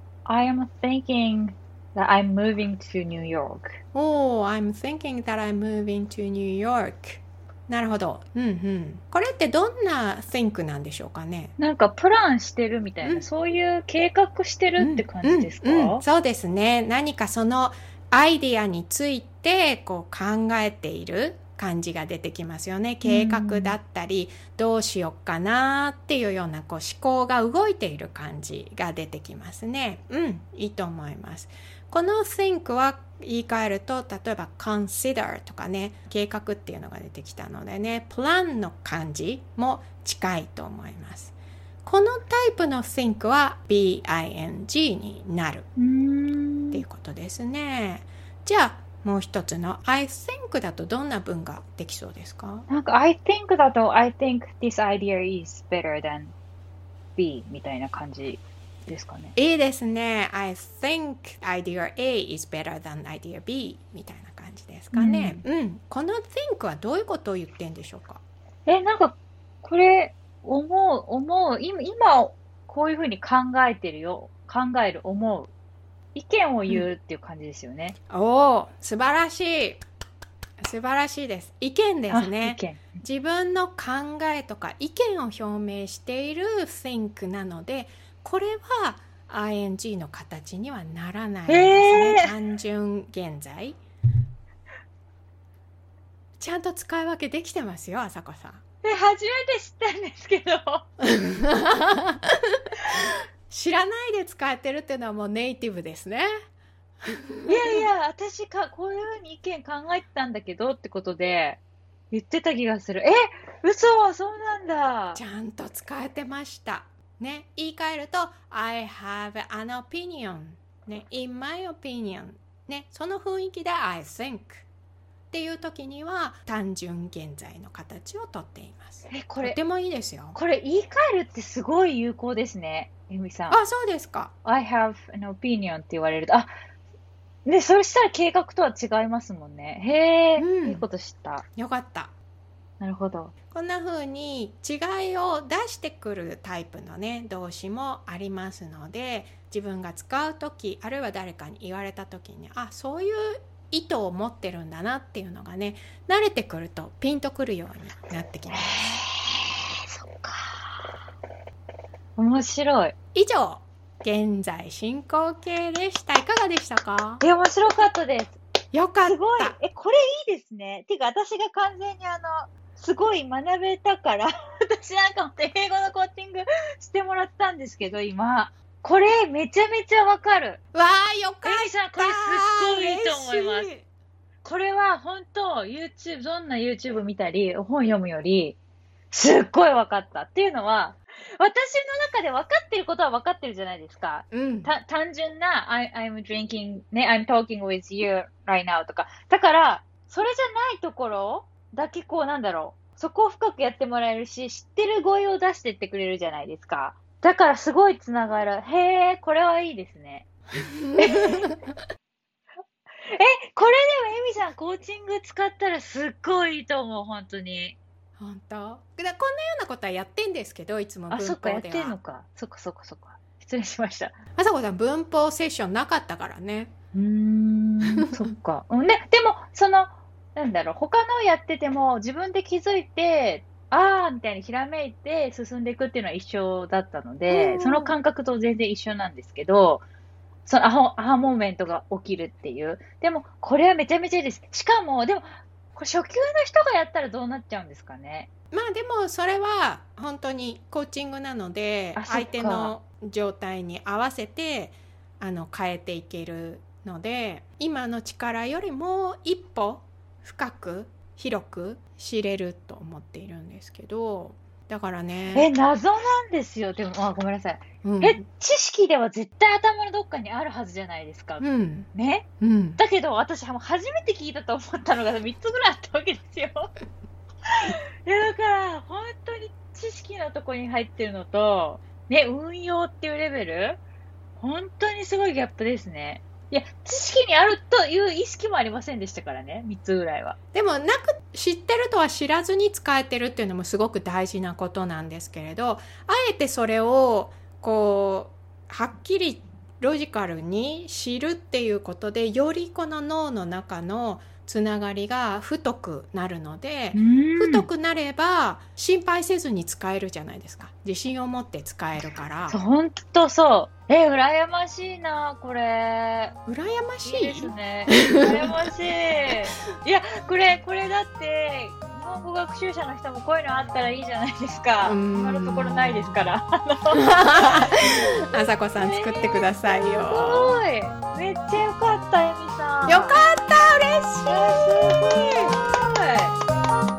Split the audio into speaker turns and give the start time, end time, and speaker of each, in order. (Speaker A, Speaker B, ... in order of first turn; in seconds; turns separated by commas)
Speaker A: 0.2-3.8, Speaker B: 3.9-11.5, Speaker A: 11.6-16.0, Speaker B: 14.8-45.7, Speaker A: 23.0-23.8, Speaker A: 45.8-46.8, Speaker B: 46.7-52.6, Speaker A: 52.7-56.3, Speaker A: 57.1-59.3, Speaker B: 59.4-68.2, Speaker A: 64.9-65.4, Speaker A: 68.7-75.5, Speaker A: 76.1-78.0, Speaker B: 78.1-79.8, Speaker B: 80.6-93.8, Speaker A: 82.1-82.8, Speaker A: 91.5-92.3, Speaker B: 96.4-98.6, Speaker A: 98.8-100.8, Speaker B: 101.0-106.3, Speaker B: 107.0-107.8, Speaker A: 107.5-111.6, Speaker A: 112.1-115.2, Speaker B: 115.1-124.7, Speaker B: 125.3-130.4, Speaker A: 129.1-129.6, Speaker A: 130.3-133.6, Speaker B: 133.5-134.3, Speaker A: 134.4-136.5, Speaker A: 137.4-141.4, Speaker B: 140.4-140.8, Speaker B: 141.6-142.1, Speaker A: 142.8-143.3, Speaker B: 143.5-159.0, Speaker A: 158.6-161.0, Speaker A: 162.2-162.9, Speaker B: 163.1-167.2, Speaker A: 167.2-168.4, Speaker B: 168.7-169.6, Speaker A: 169.0-180.6, Speaker B: 180.7-183.8, Speaker A: 181.4-183.7, Speaker A: 184.4-188.6, Speaker A: 189.1-210.3, Speaker B: 194.3-194.7, Speaker B: 210.5-211.7, Speaker A: 211.0-211.4, Speaker A: 213.0-217.8, Speaker B: 218.2-221.9, Speaker A: 221.1-224.2, Speaker B: 224.4-226.7, Speaker A: 226.9-239.8, Speaker B: 227.9-228.2, Speaker B: 237.3-237.9, Speaker A: 240.4-248.3, Speaker B: 248.5-265.5, Speaker A: 251.9-252.7, Speaker A: 265.3-272.2, Speaker B: 267.8-268.2, Speaker B: 271.4-271.9, Speaker B: 272.4-272.8, Speaker A: 272.8-276.7, Speaker A: 277.5-283.8, Speaker A: 284.4-290.4, Speaker B: 290.5-312.6, Speaker A: 306.9-307.7, Speaker A: 312.5-316.4, Speaker B: 316.4-318.7, Speaker A: 317.0-327.0, Speaker B: 324.8-326.2, Speaker B: 326.9-330.6, Speaker A: 328.8-333.2, Speaker B: 332.9-335.5, Speaker A: 334.2-336.3